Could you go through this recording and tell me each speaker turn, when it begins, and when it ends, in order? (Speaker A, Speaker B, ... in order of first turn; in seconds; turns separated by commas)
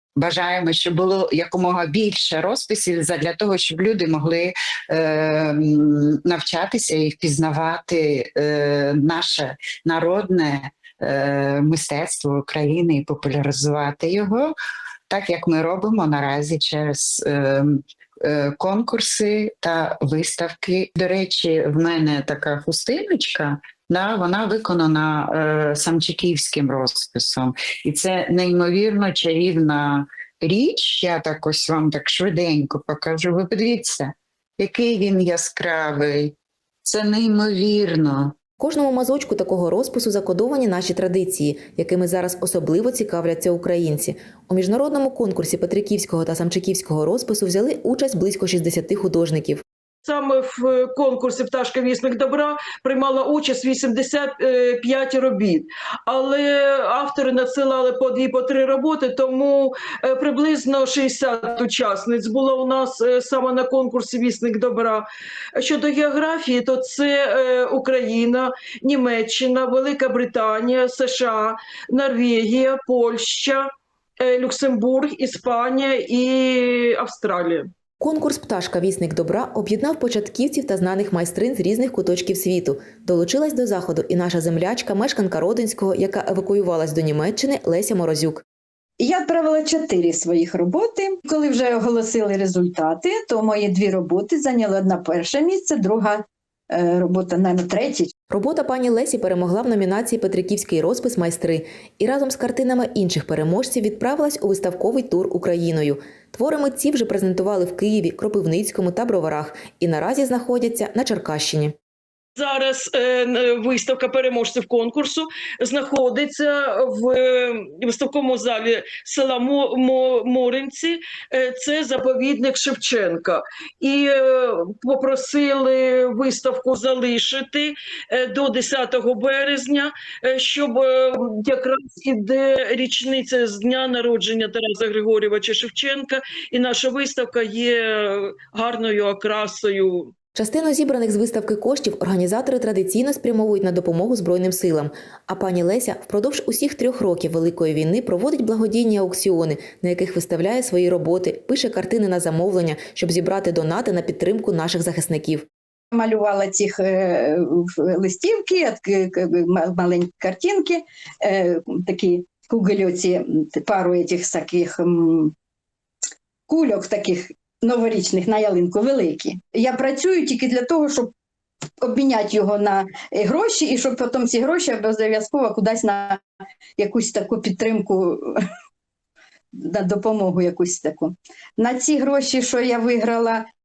Speaker A: 0.1-14.5, Speaker A: 15.1-38.3, Speaker B: 38.6-49.6, Speaker C: 50.0-73.6, Speaker C: 74.2-77.7, Speaker B: 78.0-88.4, Speaker D: 89.0-98.1, Speaker B: 98.3-111.7, Speaker C: 112.4-140.1, Speaker B: 140.3-155.5, Speaker D: 155.9-165.3, Speaker D: 166.5-171.1, Speaker D: 171.8-176.2, Speaker D: 176.8-178.4, Speaker D: 179.6-183.4